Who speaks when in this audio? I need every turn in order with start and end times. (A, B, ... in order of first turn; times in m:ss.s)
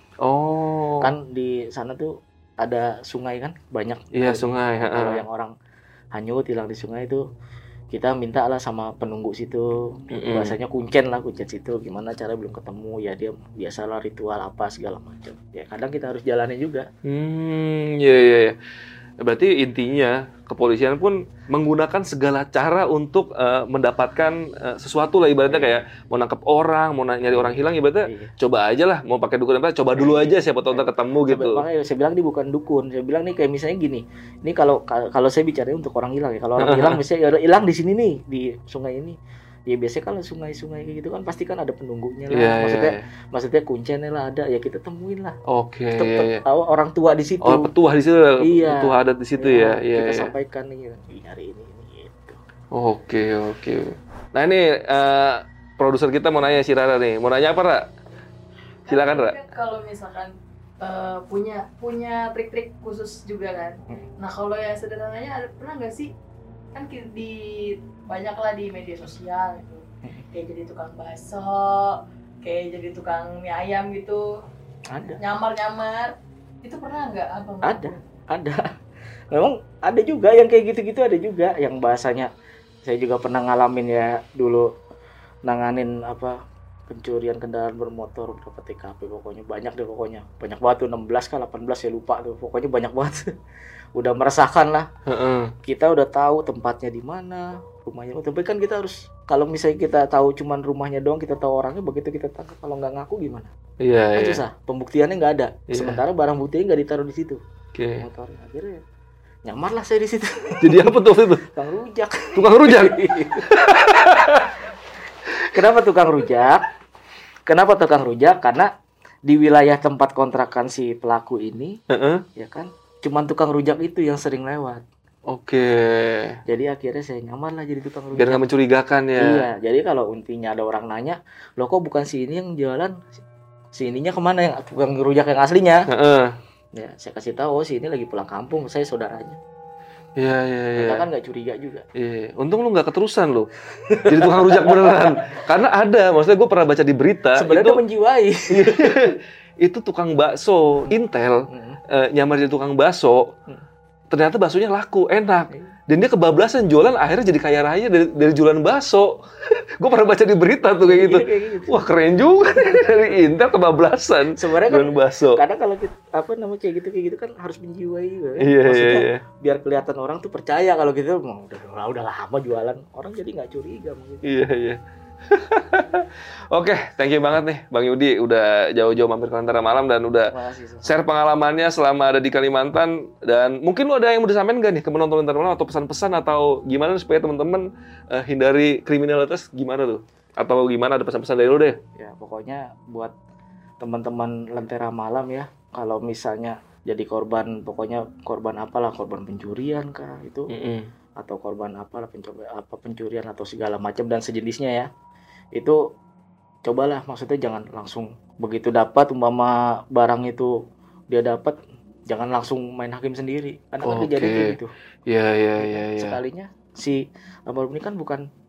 0:00.2-0:01.1 A
0:01.0-0:05.5 B
0:04.1-0:05.2 A
0:06.1-0:07.2 B
0:07.9-0:16.9 B
0:10.1-0:10.6 A
0:17.0-0:18.6 A
0:19.2-0:31.6 A
0:25.5-0:25.8 B
0:27.3-0:28.3 B
0:30.0-0:39.2 B
0:36.6-0:37.0 A
0:39.7-0:45.4 B
0:42.3-0:43.1 A
0:45.5-0:46.4 A
0:45.9-0:47.7 B
0:47.4-0:50.3 A
0:48.4-0:52.4 B
0:52.7-0:57.9 A
0:58.9-1:06.1 C
0:58.9-0:59.4 A
1:06.7-1:14.3 C
1:14.9-1:15.2 B
1:15.2-1:18.0 C
1:17.6-1:18.6 B
1:19.3-1:22.3 B
1:22.8-1:24.7 B
1:25.5-1:26.4 B
1:26.9-1:33.3 B
1:34.0-1:34.9 B
1:35.1-1:35.5 A
1:35.6-1:43.5 B
1:43.8-1:44.4 A
1:44.2-1:47.4 B
1:45.7-1:46.0 A
1:47.8-1:48.1 A
1:48.0-1:48.8 B
1:49.5-1:53.6 B
1:50.6-1:51.4 A
1:52.4-1:54.6 A
1:55.3-1:55.5 A
1:55.5-1:56.7 B
1:57.5-1:58.7 B
1:59.3-2:01.8 B
2:01.9-2:02.2 A
2:02.4-2:04.8 B
2:05.3-2:06.4 A
2:06.5-2:08.4 B
2:08.2-2:09.5 A
2:09.2-2:13.1 B
2:13.8-2:15.9 B
2:15.9-2:16.4 A
2:16.8-2:19.4 B
2:20.2-2:21.1 A
2:20.8-2:21.8 B
2:22.0-2:23.5 A
2:23.9-2:25.3 B
2:24.0-2:27.8 A
2:27.4-2:29.1 B
2:28.5-2:33.3 A
2:31.5-2:31.8 B
2:34.1-2:45.4 A
2:40.8-2:41.8 B
2:44.4-2:54.2 B
2:48.4-2:49.2 A
2:54.2-3:00.3 A
3:00.3-3:01.0 B
3:00.8-3:11.8 A
3:12.0-3:13.1 B
3:13.8-3:20.5 B
3:20.5-3:20.9 A
3:21.2-3:24.9 B
3:26.6-3:30.6 B
3:31.1-3:31.6 B
3:32.1-3:34.7 B
3:33.8-3:36.2 A
3:35.6-3:38.2 B